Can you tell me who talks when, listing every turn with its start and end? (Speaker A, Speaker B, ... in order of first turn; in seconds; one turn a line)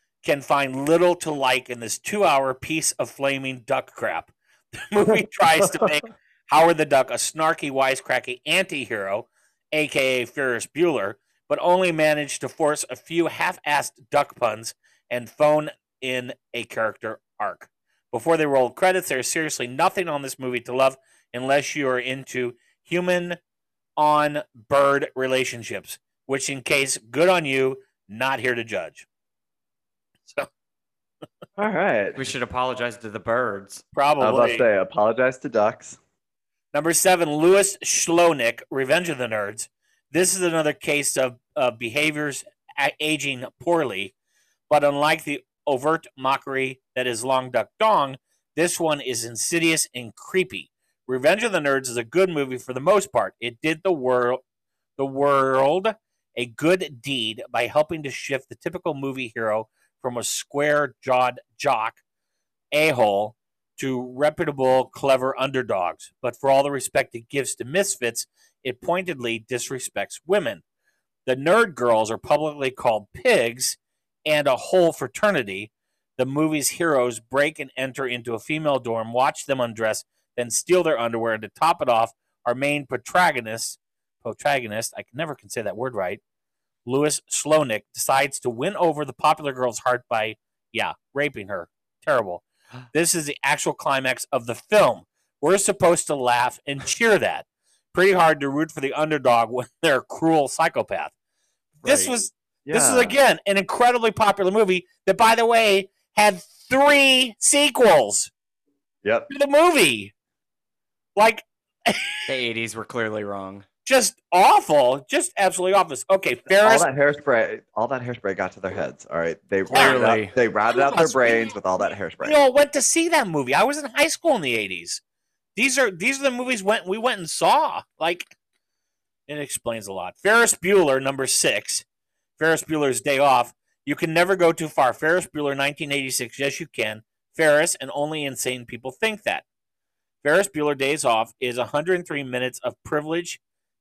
Speaker A: 0.2-23.4
Speaker A: 24.0-29.1
Speaker B: 31.6-32.2
Speaker C: 32.2-33.8
Speaker A: 33.9-34.7
Speaker B: 34.2-36.0
Speaker A: 36.7-44.1
Speaker A: 44.7-54.4
Speaker A: 55.0-62.0
Speaker A: 62.7-70.6
Speaker A: 71.3-86.2
Speaker A: 86.9-101.1
Speaker C: 101.8-102.1
Speaker A: 101.8-108.3
Speaker B: 102.7-103.2
Speaker B: 109.0-109.3
Speaker A: 109.3-110.1
Speaker A: 111.2-112.2
Speaker C: 112.3-113.7
Speaker A: 113.9-116.9
Speaker B: 116.6-122.4
Speaker C: 119.7-120.3
Speaker A: 119.7-121.6
Speaker A: 122.2-125.0
Speaker A: 125.6-128.3
Speaker A: 129.3-131.8
Speaker A: 132.4-139.4
Speaker A: 140.2-143.4